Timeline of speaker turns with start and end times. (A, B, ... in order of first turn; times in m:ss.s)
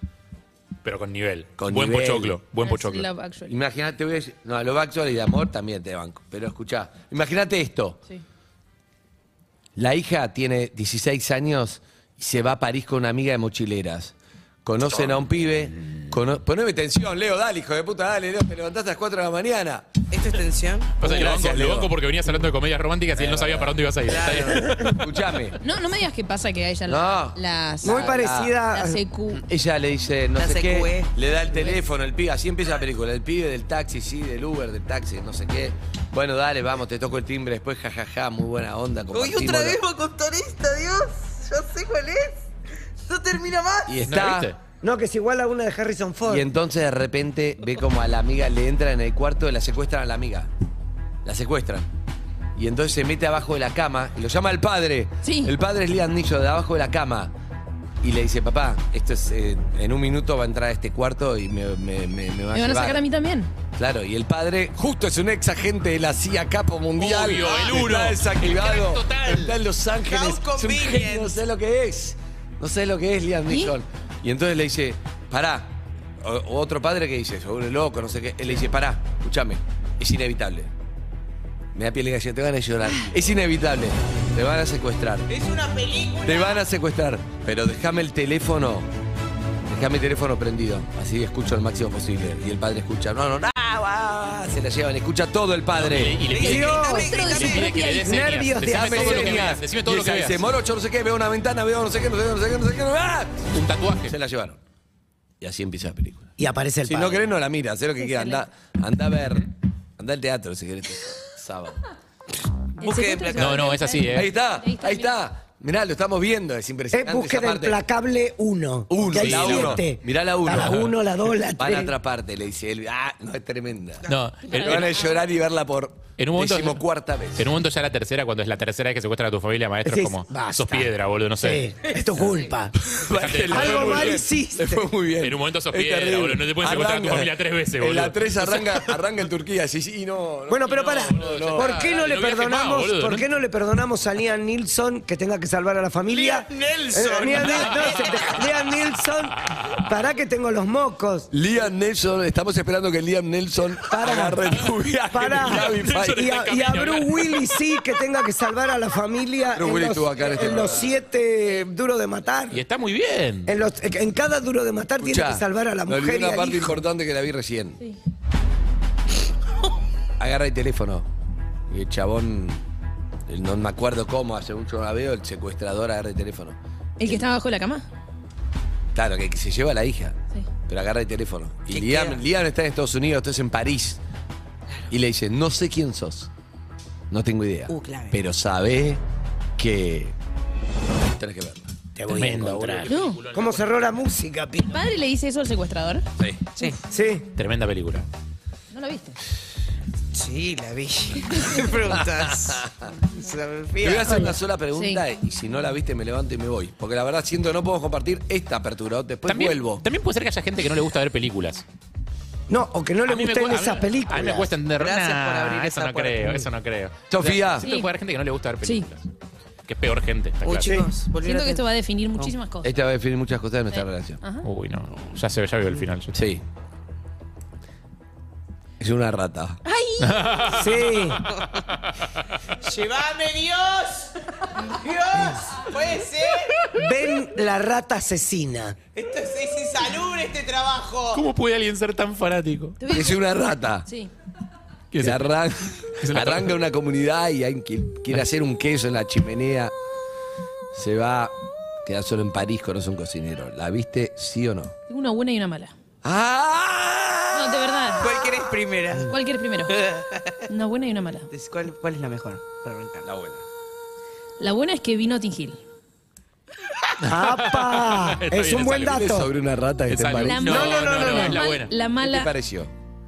0:00.8-0:03.1 A
0:01.6-0:02.4 B
0:02.6-0:03.6 C
0:03.5-0:08.0 B
0:09.8-0:14.1 B
0:14.6-0:19.9 B
0:20.1-0:20.9 D
0:21.0-0:25.0 A
0:21.0-0:21.9 B
0:23.2-0:23.8 B
0:24.1-0:24.9 D
0:24.8-0:25.6 B
0:25.6-0:28.2 C
0:26.9-0:28.6 B
0:27.8-0:29.0 E
0:28.7-0:29.4 C
0:29.3-0:39.8 B
0:30.4-0:31.7 D
0:39.1-0:42.4 D
0:43.0-0:43.9 D
0:43.9-0:44.5 B
0:44.1-0:44.6 A
0:44.8-0:46.5 E
0:46.2-0:50.5 B
0:51.2-0:51.9 B
0:52.6-0:57.3 B
0:55.2-0:55.5 C
0:58.0-1:03.0 B
1:02.5-1:03.5 C
1:03.8-1:20.7 B
1:07.0-1:09.6 A
1:10.1-1:11.3 D
1:21.8-1:25.3 B
1:25.4-1:26.6 D
1:26.2-1:28.9 B
1:29.7-1:36.2 B
1:35.8-1:40.4 A
1:36.3-1:37.7 D
1:36.4-1:37.1 E
1:36.6-1:38.3 C
1:38.1-1:39.6 E
1:38.6-1:43.5 B
1:43.5-1:44.2 A
1:44.0-1:44.6 B
1:45.4-1:46.3 B
1:46.4-1:47.3 E
1:46.9-1:51.8 B
1:48.0-1:48.4 C
1:52.8-1:55.2 C
1:52.8-1:53.8 D
1:53.4-1:54.3 A
1:54.1-1:57.8 B
1:56.9-2:01.9 E
1:58.9-2:00.9 B
1:59.1-1:59.9 A
2:00.5-2:00.9 A
2:01.6-2:07.5 B
2:04.1-2:04.9 A
2:06.2-2:06.8 A
2:07.4-2:11.7 A
2:09.8-2:12.7 E
2:12.8-2:21.8 B
2:13.1-2:14.2 A
2:13.5-2:14.9 E
2:15.2-2:18.8 A
2:20.5-2:31.3 E
2:20.7-2:23.3 A
2:26.1-2:28.4 D
2:29.5-2:29.8 A
2:31.3-2:36.3 B
2:33.9-2:34.5 E
2:35.1-2:42.6 E
2:35.4-2:37.6 A
2:39.6-2:40.9 B
2:42.5-2:43.5 A
2:43.5-2:46.8 E
2:45.0-2:47.8 B
2:50.2-2:51.1 B
2:51.7-2:52.6 B
2:53.3-2:56.6 B
2:57.0-2:57.8 C
2:58.9-3:04.0 B
3:01.7-3:02.2 D
3:04.9-3:06.3 B
3:07.1-3:09.0 B
3:07.7-3:08.2 D
3:09.6-3:10.2 B
3:11.0-3:11.7 B
3:12.0-3:14.8 E
3:12.1-3:13.8 A
3:12.4-3:12.7 B
3:12.9-3:13.2 C
3:14.7-3:16.1 C
3:16.9-3:17.2 E
3:17.4-3:18.1 A
3:18.7-3:19.2 C
3:20.1-3:24.2 D
3:21.3-3:21.6 C
3:21.9-3:22.9 B
3:23.8-3:29.8 B
3:24.7-3:25.0 C
3:29.3-3:31.6 A
3:32.5-3:34.6 E
3:33.1-3:39.1 A
3:34.7-3:36.4 D
3:37.1-3:37.7 B
3:37.6-3:37.9 C
3:39.7-3:40.7 A
3:40.4-3:41.6 D
3:40.6-3:40.9 E
3:41.2-3:42.8 C
3:42.6-3:44.2 B
3:43.7-3:44.4 C
3:44.4-3:46.2 A
3:46.1-3:46.4 B
3:48.8-3:49.6 B
3:49.7-3:50.1 D
3:50.0-3:50.9 A
3:50.6-3:51.2 E
3:52.6-3:54.0 D
3:54.8-3:56.6 D
3:56.8-3:58.8 E
3:59.0-4:01.2 D
4:01.1-4:02.8 A
4:02.8-4:03.3 C
4:02.9-4:03.9 B
4:03.8-4:04.1 C
4:04.9-4:05.3 A
4:05.0-4:09.7 B
4:06.0-4:06.6 A
4:10.7-4:14.8 B
4:14.9-4:15.7 C
4:16.0-4:17.8 B
4:17.3-4:18.2 C
4:18.0-4:19.1 D
4:19.0-4:19.8 C
4:19.7-4:20.4 D
4:20.5-4:21.3 C
4:21.3-4:23.1 D
4:23.0-4:23.4 B
4:24.4-4:25.6 C
4:27.0-4:29.3 E
4:27.1-4:29.0 A
4:28.8-4:31.3 B
4:29.9-4:31.7 A
4:30.2-4:32.3 C
4:30.5-4:31.4 E
4:32.0-4:32.7 B